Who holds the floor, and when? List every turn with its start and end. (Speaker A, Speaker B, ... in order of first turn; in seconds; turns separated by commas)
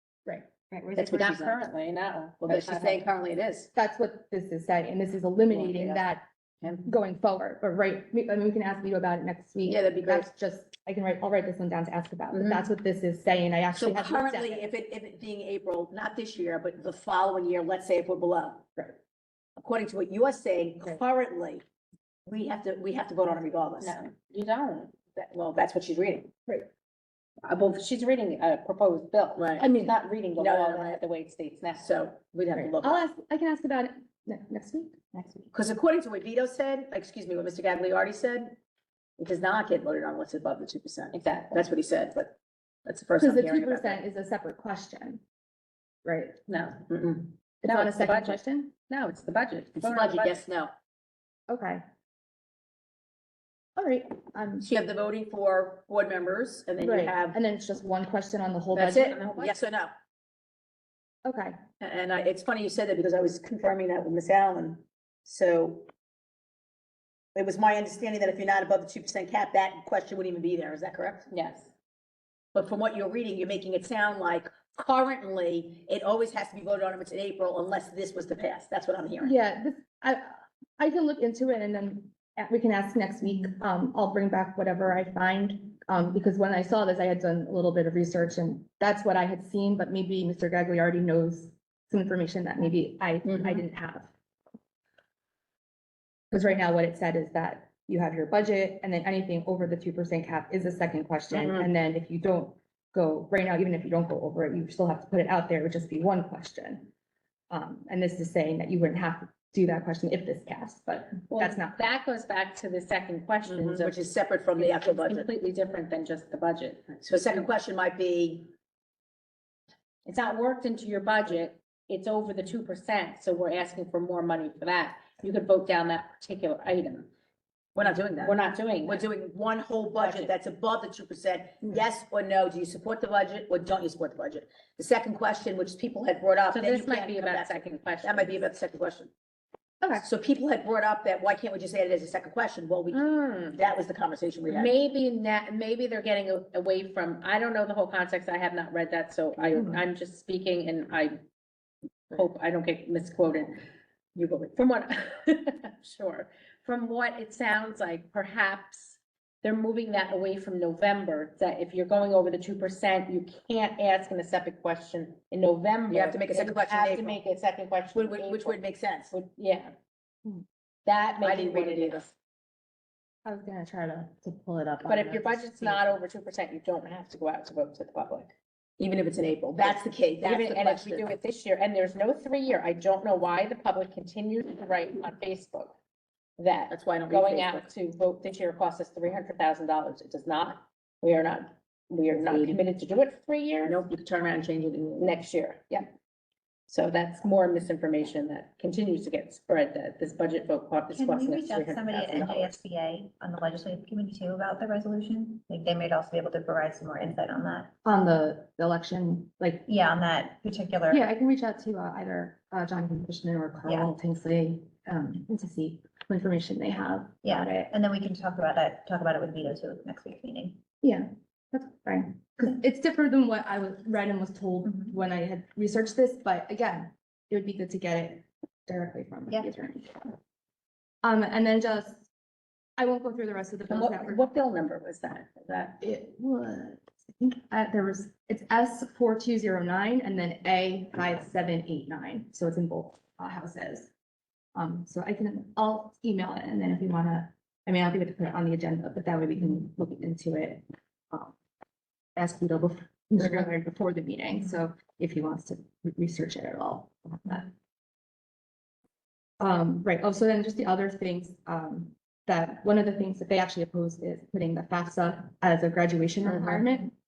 Speaker A: 0.2-1.0, Speaker B: 0.9-1.6, Speaker C: 1.0-3.0, Speaker B: 2.4-3.7, Speaker A: 3.7-6.2, Speaker B: 5.5-6.1, Speaker B: 6.6-6.9, Speaker A: 6.8-14.7, Speaker B: 9.7-10.3, Speaker B: 13.7-18.7, Speaker B: 19.6-21.6, Speaker B: 22.2-23.9, Speaker C: 23.8-25.0, Speaker B: 25.1-26.3, Speaker C: 27.4-31.9, Speaker B: 29.4-29.6, Speaker A: 29.6-29.9, Speaker B: 30.4-31.0, Speaker B: 31.8-33.0, Speaker A: 32.5-35.5, Speaker B: 35.5-38.6, Speaker B: 39.2-42.3, Speaker C: 41.1-41.6, Speaker B: 42.9-44.0, Speaker A: 43.2-45.2, Speaker A: 46.0-46.4, Speaker C: 46.5-46.8, Speaker B: 46.9-47.3, Speaker A: 47.6-48.7, Speaker C: 47.6-50.4, Speaker B: 49.8-50.7, Speaker A: 51.5-51.8, Speaker A: 53.8-54.7, Speaker B: 54.6-57.4, Speaker A: 56.8-59.2, Speaker B: 58.7-59.9, Speaker C: 59.1-59.6, Speaker A: 61.2-61.5, Speaker B: 61.8-65.9, Speaker B: 67.3-71.3, Speaker C: 71.3-71.7, Speaker B: 72.5-79.3, Speaker A: 79.2-94.1, Speaker B: 93.2-93.6, Speaker A: 96.3-106.9, Speaker B: 101.3-101.6, Speaker A: 107.5-111.8, Speaker C: 111.3-114.0, Speaker B: 113.5-115.3, Speaker C: 114.6-117.0, Speaker B: 117.0-118.5, Speaker C: 120.0-127.1, Speaker B: 127.8-139.1, Speaker C: 128.1-129.1, Speaker C: 130.0-130.3, Speaker C: 136.5-138.4, Speaker B: 140.0-144.7, Speaker C: 142.9-143.6, Speaker C: 144.5-151.2, Speaker A: 149.5-149.8, Speaker C: 152.1-153.6, Speaker C: 154.1-169.7, Speaker B: 165.9-167.2, Speaker B: 167.9-169.1, Speaker C: 170.8-172.1, Speaker B: 171.2-172.1, Speaker A: 173.2-175.9, Speaker C: 174.8-178.3, Speaker B: 178.8-181.1, Speaker C: 180.2-185.8, Speaker C: 186.4-193.8, Speaker B: 186.7-187.7, Speaker B: 192.1-192.6, Speaker B: 193.6-195.2, Speaker C: 195.0-195.9, Speaker C: 196.7-202.5, Speaker D: 200.9-207.7, Speaker A: 207.8-209.7, Speaker D: 209.7-211.0, Speaker A: 210.9-217.7, Speaker D: 213.6-213.9, Speaker D: 217.2-220.6, Speaker A: 220.8-230.0, Speaker A: 231.0-232.1, Speaker A: 232.8-234.2, Speaker C: 233.7-235.8, Speaker A: 235.8-243.9, Speaker A: 244.5-251.3, Speaker A: 252.2-257.5, Speaker A: 259.4-266.9